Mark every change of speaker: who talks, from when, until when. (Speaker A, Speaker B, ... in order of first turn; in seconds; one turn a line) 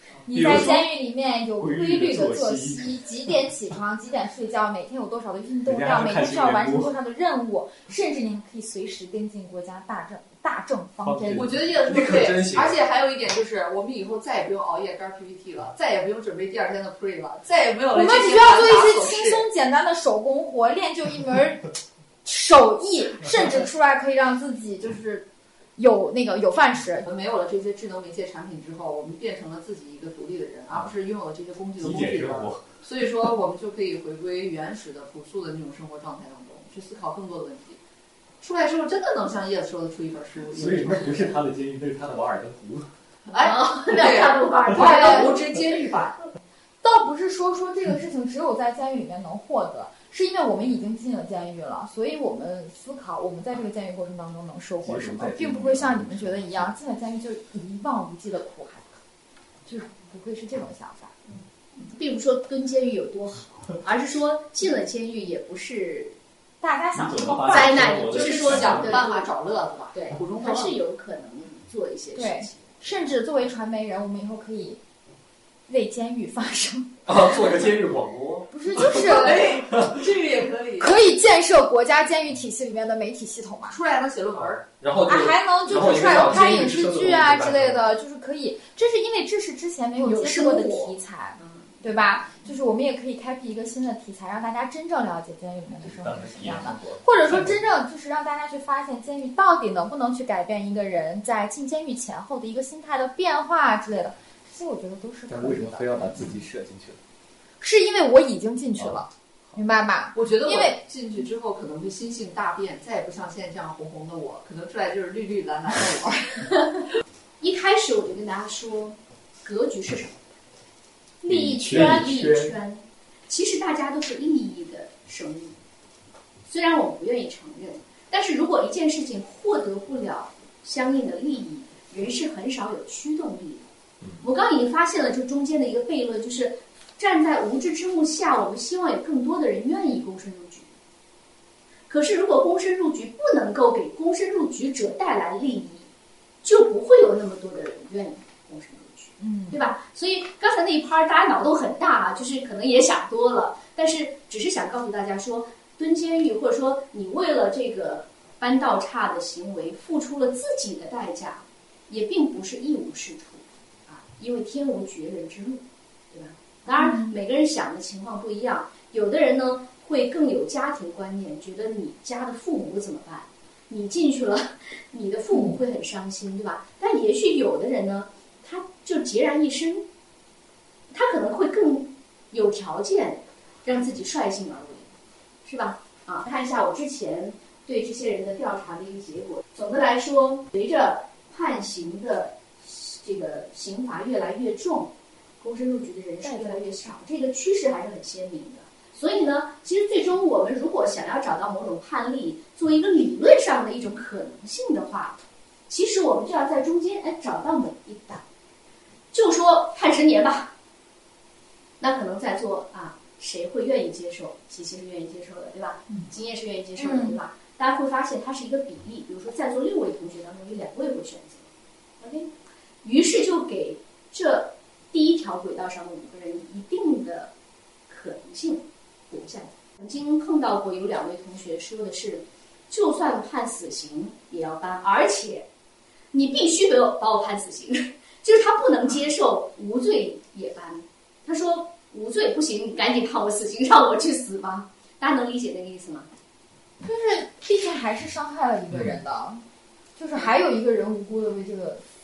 Speaker A: 0.3-11.5
Speaker B: 11.2-12.5
Speaker C: 11.3-19.5
Speaker A: 17.9-21.7
Speaker A: 22.2-27.1
Speaker C: 27.0-37.8
Speaker B: 31.9-32.5
Speaker C: 38.4-41.4
Speaker B: 40.6-42.9
Speaker C: 43.3-46.2
Speaker D: 43.3-45.5
Speaker A: 45.1-45.3
Speaker A: 46.8-59.0
Speaker B: 54.9-56.7
Speaker A: 59.7-61.1
Speaker D: 61.8-66.2
Speaker A: 66.6-67.9
Speaker B: 67.1-68.9
Speaker D: 67.4-69.3
Speaker C: 68.0-70.8
Speaker D: 69.9-72.7
Speaker A: 72.2-74.8
Speaker A: 75.7-77.2
Speaker E: 77.1-78.5
Speaker A: 78.5-79.6
Speaker C: 78.7-81.0
Speaker E: 79.5-79.9
Speaker A: 80.8-83.8
Speaker C: 83.7-84.8
Speaker E: 84.7-87.8
Speaker A: 85.1-105.9
Speaker D: 90.0-91.0
Speaker B: 95.8-97.5
Speaker B: 105.3-107.0
Speaker A: 107.6-110.8
Speaker C: 110.1-116.4
Speaker D: 116.6-116.9
Speaker D: 117.4-120.2
Speaker D: 121.2-125.6
Speaker B: 121.3-122.3
Speaker D: 126.5-133.7
Speaker D: 134.2-140.7
Speaker D: 141.9-145.9
Speaker D: 146.4-179.9
Speaker A: 149.2-149.6
Speaker A: 166.8-167.2
Speaker D: 180.9-184.9
Speaker D: 185.4-205.2
Speaker D: 205.7-208.2
Speaker D: 209.1-210.5
Speaker D: 211.8-221.5
Speaker A: 216.8-217.2
Speaker D: 222.0-222.3
Speaker D: 222.8-227.3
Speaker D: 227.9-235.5
Speaker D: 236.1-246.1
Speaker A: 246.8-249.4
Speaker A: 250.0-251.8